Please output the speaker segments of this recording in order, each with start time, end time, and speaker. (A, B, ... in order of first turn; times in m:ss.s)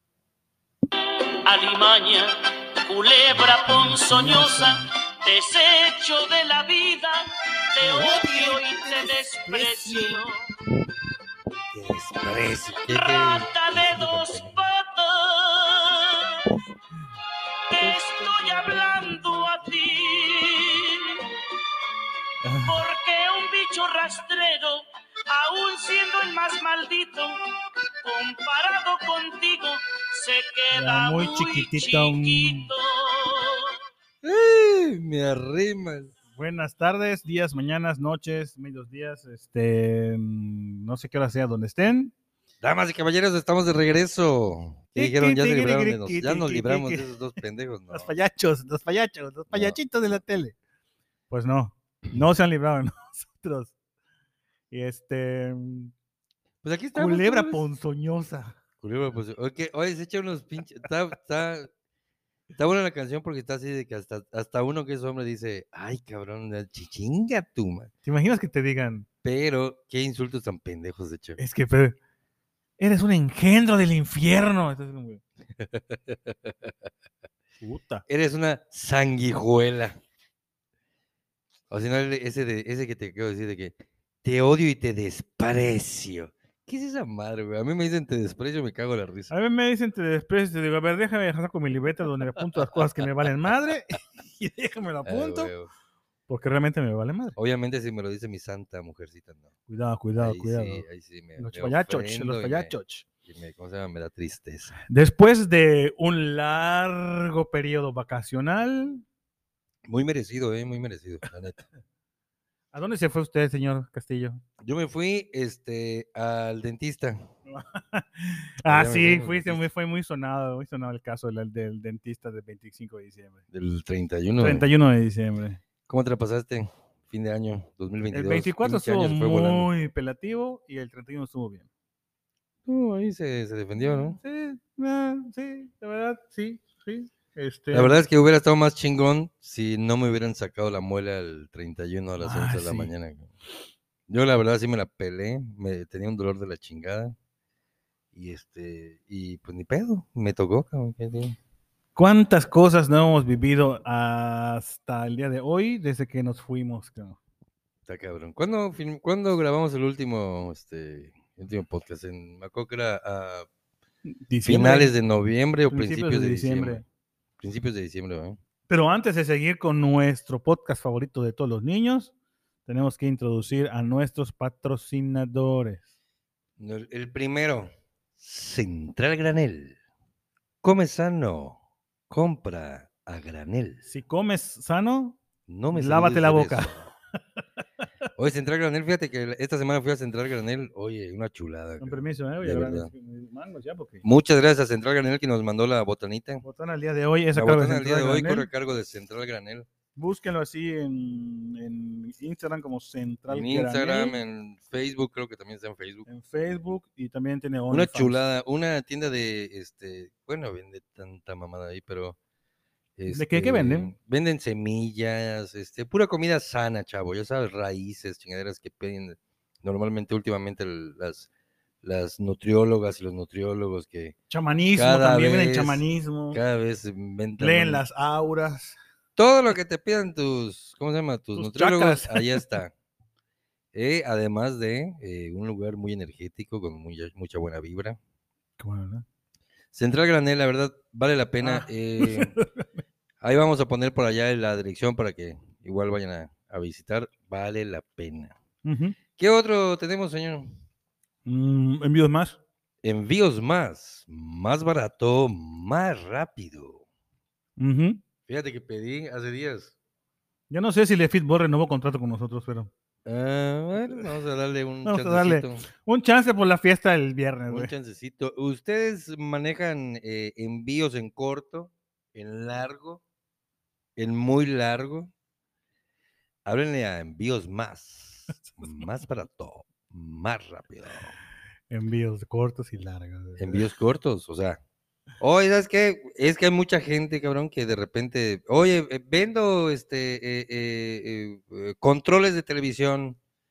0:01.4-0:02.4 A
0:02.9-0:10.3 A
0:03.7-0:04.8 B
0:07.9-0:08.9 B
0:09.5-0:10.2 B
0:11.7-0:14.6 C
0:12.9-0:16.5 A
0:17.7-0:21.3 A
0:22.4-0:22.8 B
0:22.6-0:27.3 A
0:28.0-0:33.8 A
0:30.7-0:32.7 B
0:34.2-0:36.1 C
0:36.4-0:42.1 B
0:42.6-0:48.2 C
0:45.0-0:47.1 B
0:47.9-0:50.6 B
0:49.5-0:49.8 C
0:51.3-0:53.7 B
0:54.7-0:55.9 B
0:56.6-0:57.7 C
0:56.9-0:58.6 B
0:58.8-1:01.7 C
1:02.6-1:07.9 C
1:08.0-1:09.1 B
1:09.2-1:11.4 C
1:11.4-1:12.0 B
1:12.8-1:15.2 B
1:15.6-1:16.7 C
1:17.6-1:18.0 B
1:18.1-1:20.0 C
1:21.7-1:29.3 C
1:29.3-1:35.5 B
1:35.0-1:35.7 C
1:36.3-1:37.4 B
1:37.4-1:39.5 C
1:39.7-1:40.8 B
1:40.2-1:42.7 C
1:41.4-1:43.1 B
1:43.2-1:44.8 C
1:44.9-1:49.0 B
1:49.8-1:51.7 C
1:52.7-1:54.4 B
1:54.6-1:57.2 C
1:57.5-2:03.4 B
1:58.7-1:59.7 C
2:03.5-2:04.7 C
2:04.4-2:05.6 B
2:05.9-2:09.7 C
2:08.1-2:11.7 B
2:12.7-2:14.2 C
2:13.8-2:18.0 B
2:17.7-2:23.3 C
2:22.2-2:22.9 B
2:24.1-2:27.2 C
2:28.1-2:31.4 C
2:32.0-2:37.2 B
2:37.9-2:43.5 C
2:44.1-2:44.9 B
2:44.4-2:46.8 C
2:45.7-2:46.8 B
2:47.4-2:48.4 C
2:48.7-2:52.1 B
2:52.7-2:55.8 B
2:56.6-2:59.8 C
3:00.6-3:01.6 C
3:02.1-3:03.8 C
3:03.9-3:05.2 B
3:05.5-3:06.9 C
3:05.7-3:06.8 B
3:08.2-3:12.9 C
3:11.8-3:14.0 B
3:14.0-3:16.4 C
3:16.4-3:18.5 B
3:17.3-3:19.7 C
3:20.0-3:24.2 B
3:23.3-3:26.1 C
3:26.1-3:28.2 B
3:27.7-3:32.2 C
3:33.0-3:41.3 C
3:33.1-3:33.9 B
3:41.8-3:44.2 C
3:44.3-3:46.4 B
3:44.8-3:47.8 C
3:47.4-3:48.8 B
3:49.2-3:52.7 C
3:51.4-3:52.5 B
3:53.7-3:58.0 C
3:58.6-3:59.0 B
3:59.7-4:02.4 C
4:01.4-4:02.6 B
4:03.2-4:08.4 C
4:08.6-4:09.0 B
4:09.2-4:10.6 C
4:11.3-4:12.4 B
4:12.8-4:16.8 C
4:17.6-4:18.0 B
4:18.3-4:19.7 C
4:20.5-4:22.7 B
4:23.0-4:25.7 C
4:24.8-4:27.7 B
4:27.5-4:33.0 C
4:34.0-4:35.1 C
4:36.4-4:41.2 C
4:41.7-4:43.7 B
4:43.4-4:44.6 C
4:45.2-4:53.2 C